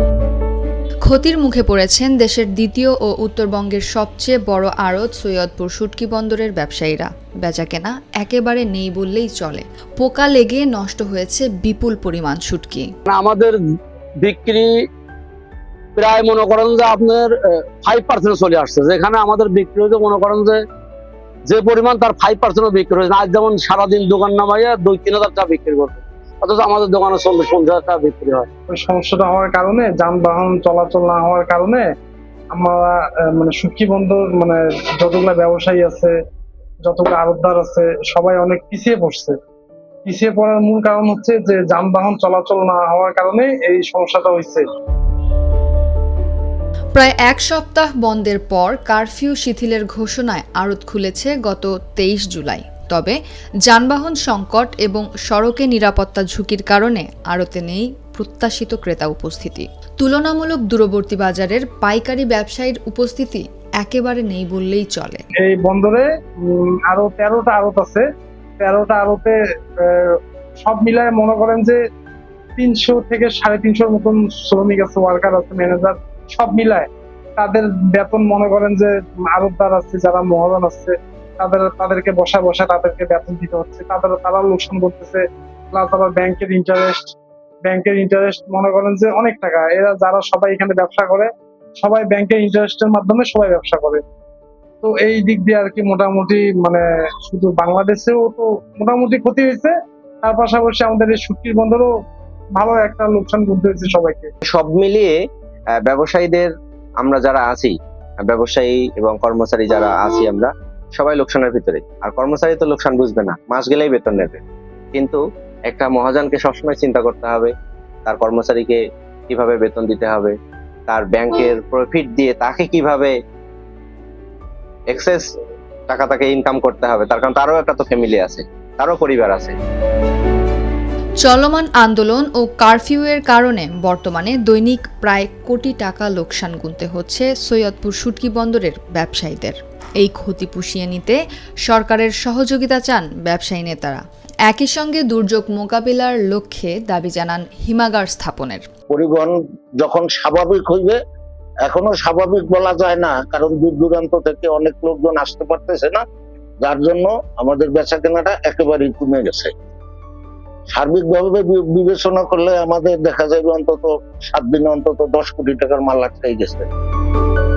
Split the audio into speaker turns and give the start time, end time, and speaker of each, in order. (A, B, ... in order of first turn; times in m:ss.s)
0:01.0-0:12.9 A
0:13.1-0:13.6 B
0:14.2-0:14.7 B
0:16.0-0:20.6 B
0:21.5-0:28.5 B
0:28.7-0:31.8 C
0:32.5-0:36.1 C
0:36.8-0:39.4 C
0:40.0-0:44.6 C
0:46.9-1:05.2 A
1:05.4-1:08.0 C
1:08.6-1:11.8 C
1:12.6-1:25.2 C
1:25.7-1:27.1 C
1:27.6-1:31.3 C
1:31.8-1:34.0 C
1:34.8-1:41.9 C
1:42.6-1:44.3 C
1:44.5-1:45.1 D
1:45.8-1:54.4 D
1:54.9-1:57.5 D
1:58.0-2:00.3 D
2:00.9-2:03.1 D
2:04.9-2:05.3 D
2:05.9-2:09.6 D
2:11.2-2:28.6 A
2:28.9-2:31.0 E
2:31.6-2:36.0 E
2:36.6-2:39.5 E
2:40.7-2:46.7 E